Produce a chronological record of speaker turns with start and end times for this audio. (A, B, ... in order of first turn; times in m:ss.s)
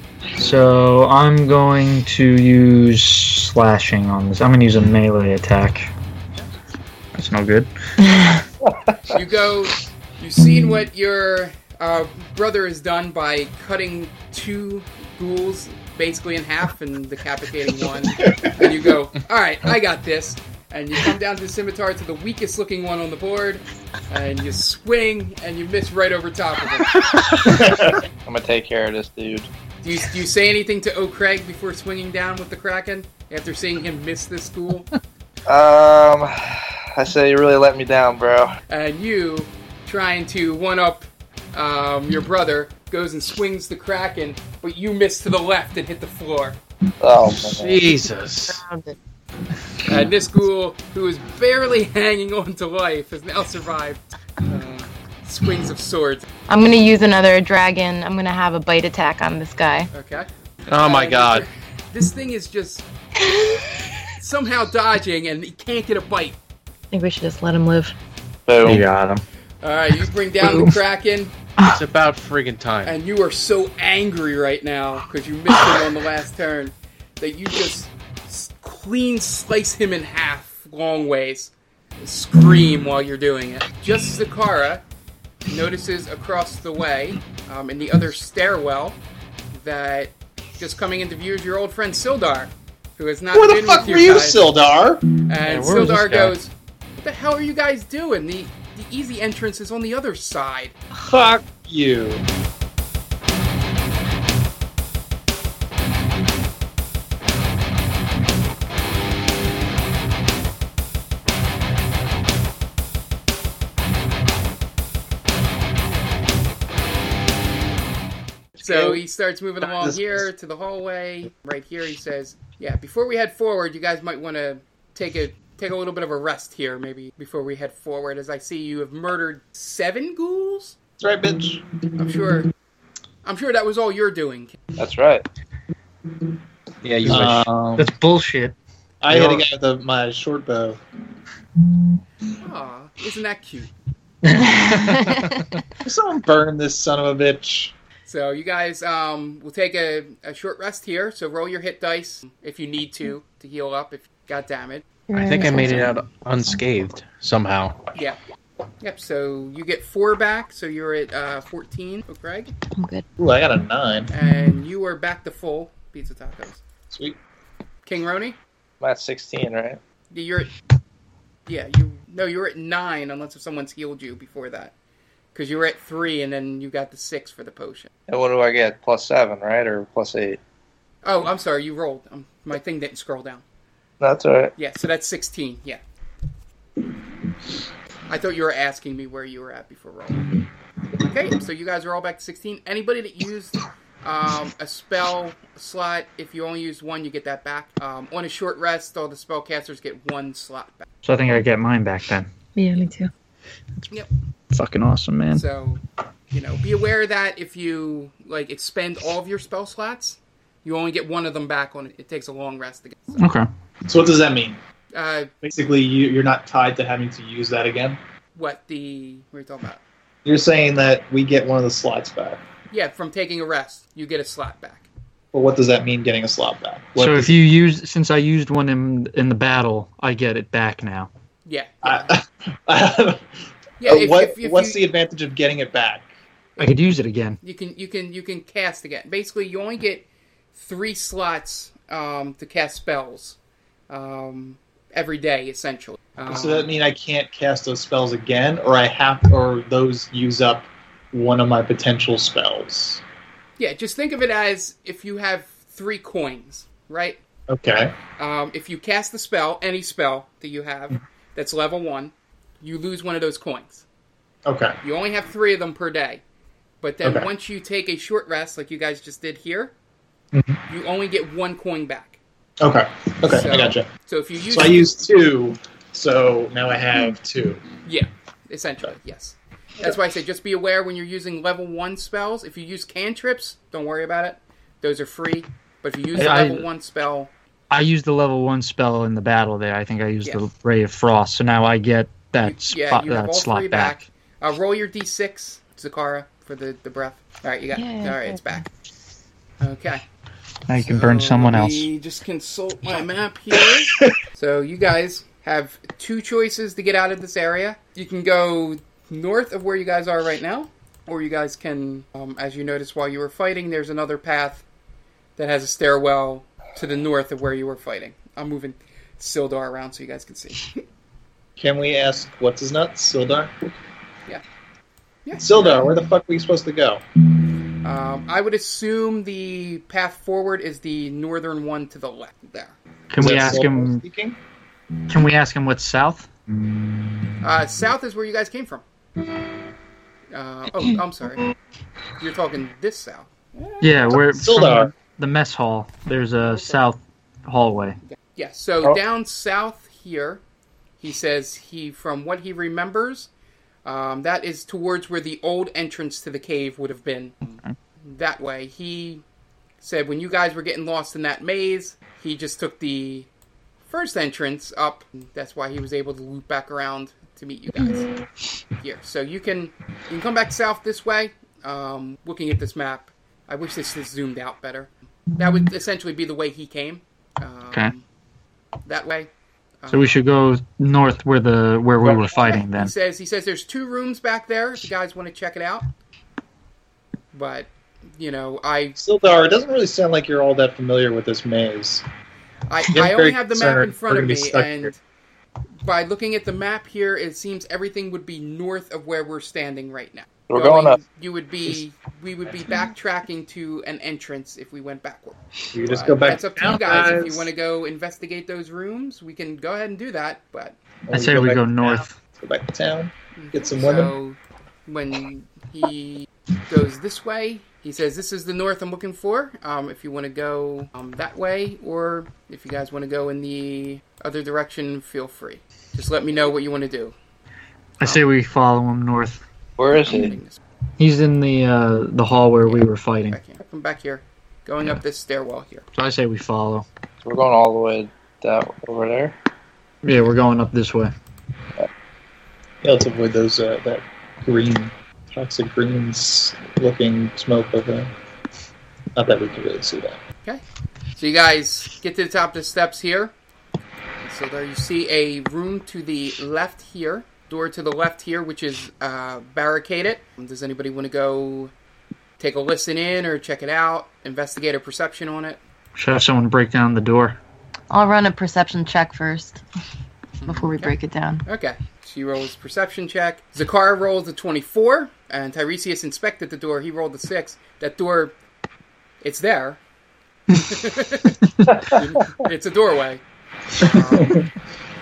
0:00.4-0:05.9 A
0:07.2-0:07.7 A
0:08.1-0:08.4 B
0:09.1-0:27.0 C
0:27.4-0:28.0 D
0:27.6-0:29.5 E
0:29.8-0:34.9 C
0:35.5-0:38.6 E
0:38.7-0:46.6 C
0:47.0-0:47.9 E
0:47.3-0:48.6 F
0:48.5-0:49.0 B
0:49.8-0:56.3 C
0:56.5-0:59.9 B
0:59.9-1:02.9 C
1:00.7-1:01.5 F
1:04.2-1:06.4 C
1:06.9-1:08.0 B
1:08.5-1:08.9 E
1:08.6-1:09.2 A
1:09.6-1:11.3 C
1:11.7-1:13.0 F
1:12.8-1:24.8 C
1:25.5-1:29.0 C
1:29.5-1:34.5 C
1:33.3-1:35.1 D
1:35.3-1:40.8 C
1:35.4-1:36.4 A
1:41.0-1:42.2 D
1:58.6-2:10.8 C
2:11.0-2:11.6 D
2:12.0-2:12.5 C
2:13.2-2:14.6 C
2:14.8-2:15.2 E
2:16.8-2:17.5 F
2:17.1-2:17.9 D
2:17.1-2:18.6 A
2:19.0-2:20.8 D
2:19.1-2:19.5 A
2:22.4-2:23.7 C
2:24.6-2:25.2 B
2:25.8-2:27.7 D
2:28.0-2:34.9 C
2:35.1-2:36.1 B
2:35.1-2:37.8 F
2:38.8-2:42.5 C
2:42.7-2:43.0 B
2:43.2-2:44.1 D
2:44.1-2:46.6 C
2:46.9-2:47.2 D
2:47.8-2:48.4 C
2:48.8-2:49.8 E
2:50.1-2:50.5 C
2:51.5-2:54.7 C
2:55.3-2:57.9 C
2:58.1-3:00.4 E
3:01.0-3:03.4 C
3:04.0-3:04.5 E
3:04.6-3:05.8 C
3:08.1-3:10.3 C
3:11.0-3:20.9 C
3:21.0-3:22.3 A
3:22.6-3:23.1 B
3:24.5-3:25.4 A
3:25.3-3:33.3 C
3:33.2-3:33.5 A
3:33.8-3:34.6 D
3:34.9-3:35.3 C
3:35.4-3:38.0 D
3:38.4-3:39.8 C
3:40.2-3:42.4 D
3:42.7-3:44.9 C
3:45.3-3:47.4 D
3:47.0-3:51.1 A
3:51.5-3:52.1 C
3:51.8-3:53.3 D
3:53.8-3:54.8 C
3:53.8-3:56.1 D
3:56.6-3:57.4 A
3:57.4-4:03.4 C
4:03.9-4:06.7 C
4:06.3-4:13.0 D
4:13.6-4:17.2 C
4:17.5-4:18.0 D
4:18.2-4:23.8 C
4:24.5-4:24.8 D
4:24.8-4:26.2 C
4:26.8-4:29.7 C
4:27.0-4:27.3 D
4:30.3-4:30.6 D
4:30.7-4:32.2 C
4:32.6-4:33.9 D
4:33.3-4:35.1 C
4:34.5-4:37.6 D
4:37.8-4:47.3 C
4:46.2-4:46.7 A
4:47.7-4:54.1 A
4:52.4-4:58.7 C
4:57.7-4:58.6 B
4:59.6-5:00.0 C
5:00.7-5:01.9 A
5:00.8-5:14.6 C
5:03.5-5:04.1 D
5:15.4-5:20.8 C
5:21.6-5:23.8 D
5:25.2-5:25.9 C
5:25.4-5:27.0 D
5:27.8-5:32.8 C
5:33.1-5:34.0 A
5:33.2-5:34.4 D
5:35.1-5:36.3 A
5:37.4-5:38.8 C
5:40.3-5:41.5 C
5:42.2-5:44.1 C
5:43.8-5:48.0 A
5:44.1-5:44.9 D
5:48.0-5:50.4 C
5:51.0-5:53.3 C
5:53.8-5:59.2 C
5:59.8-6:03.3 C
6:03.9-6:08.1 C
6:08.8-6:18.0 C
6:18.9-6:19.3 C
6:19.8-6:20.3 C
6:19.9-6:22.9 A
6:22.0-6:25.9 C
6:27.3-6:29.0 C
6:29.0-6:32.0 D
6:32.7-6:35.0 C
6:32.9-6:34.9 D
6:35.8-6:50.8 C
6:40.5-6:41.0 E
6:45.7-6:47.5 D
6:51.1-6:54.1 D
6:51.1-6:52.2 A
6:53.4-7:07.2 C
7:08.0-7:09.4 A
7:09.8-7:10.4 E
7:10.0-7:10.6 C
7:11.0-7:13.4 A
7:12.6-7:15.9 C
7:16.0-7:16.9 A
7:17.2-7:19.4 E
7:20.0-7:21.1 A
7:22.8-7:28.1 D
7:29.2-7:30.2 D
7:31.2-7:33.3 C
7:34.2-7:41.7 C
7:42.4-7:45.6 C
7:46.0-7:47.4 A
7:47.9-7:49.6 B
7:50.4-7:51.0 C
7:50.5-7:51.4 B
7:51.5-7:58.4 C
7:59.2-7:59.8 C
8:00.5-8:03.2 C
8:03.8-8:04.5 C